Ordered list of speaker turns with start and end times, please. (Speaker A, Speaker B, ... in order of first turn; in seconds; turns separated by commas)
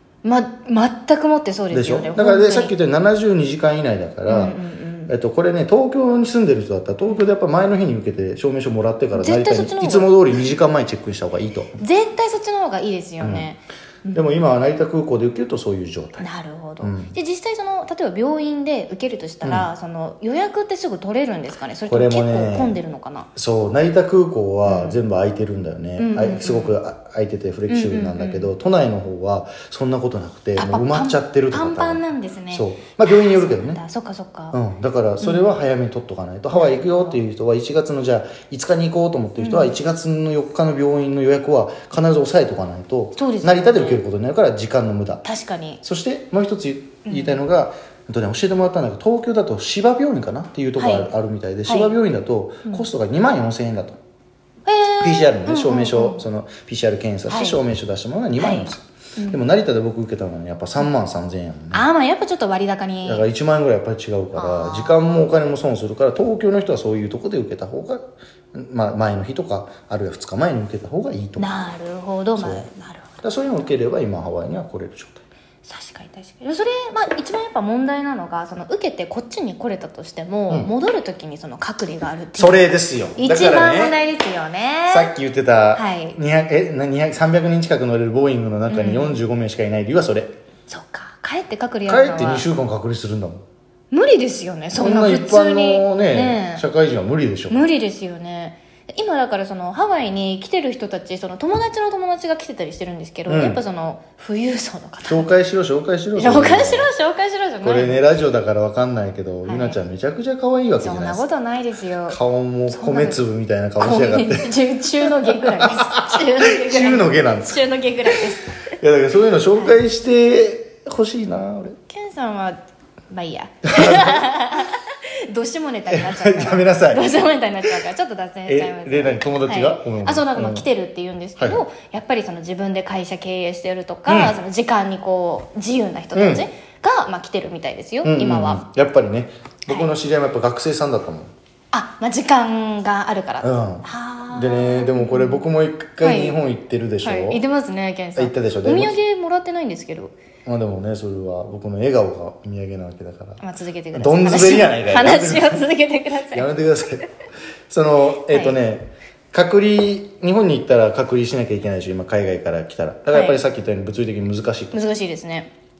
Speaker A: 0.2-2.8, Speaker B: 1.7-4.6, Speaker A: 4.3-5.1, Speaker B: 5.1-11.8, Speaker A: 9.1-10.2, Speaker A: 11.8-14.3, Speaker B: 13.2-13.5, Speaker B: 14.1-16.3, Speaker A: 16.2-23.3, Speaker B: 16.8-17.1, Speaker B: 19.4-19.7, Speaker B: 21.9-22.8, Speaker B: 23.4-33.8, Speaker A: 24.6-25.0, Speaker A: 26.0-26.8, Speaker A: 27.7-28.5, Speaker A: 30.6-34.6, Speaker B: 34.5-45.2, Speaker A: 35.2-35.5, Speaker A: 36.5-37.2, Speaker A: 39.4-39.8, Speaker A: 43.2-44.0, Speaker A: 45.2-45.8, Speaker B: 45.8-54.0, Speaker A: 47.1-47.4, Speaker A: 50.8-51.1, Speaker A: 51.7-52.0, Speaker A: 54.7-56.2, Speaker B: 55.0-61.9, Speaker A: 57.3-57.6, Speaker A: 58.4-59.4, Speaker A: 61.7-63.2, Speaker B: 63.0-68.0, Speaker A: 64.3-65.0, Speaker B: 68.5-71.5, Speaker A: 71.4-73.1, Speaker B: 72.4-72.7, Speaker B: 73.2-75.2, Speaker A: 75.6-85.1, Speaker B: 82.4-84.0, Speaker B: 84.9-90.3, Speaker A: 85.7-86.2, Speaker A: 88.7-89.2, Speaker A: 90.7-92.5, Speaker B: 91.9-93.4, Speaker A: 93.9-96.6, Speaker B: 94.8-97.6, Speaker A: 97.5-105.3, Speaker B: 103.3-103.6, Speaker B: 105.0-106.9, Speaker A: 106.2-108.0, Speaker B: 107.6-111.3, Speaker A: 109.5-109.8, Speaker A: 110.8-113.2, Speaker B: 112.1-118.2, Speaker A: 113.8-118.6, Speaker B: 118.8-121.8, Speaker A: 121.9-122.6, Speaker A: 123.1-138.6, Speaker B: 123.7-124.2, Speaker B: 125.9-127.1, Speaker B: 128.5-130.7, Speaker B: 131.4-131.6, Speaker B: 134.1-134.4, Speaker B: 136.1-136.4, Speaker B: 138.0-141.3, Speaker A: 139.7-139.9, Speaker A: 141.7-145.4, Speaker B: 143.4-147.4, Speaker A: 146.0-146.4, Speaker A: 147.0-150.2, Speaker B: 148.2-149.0, Speaker B: 150.4-153.4, Speaker A: 153.4-156.5, Speaker B: 153.9-155.7, Speaker B: 156.3-157.1, Speaker B: 157.7-164.8, Speaker A: 158.3-158.6, Speaker A: 163.1-163.4, Speaker A: 164.7-165.5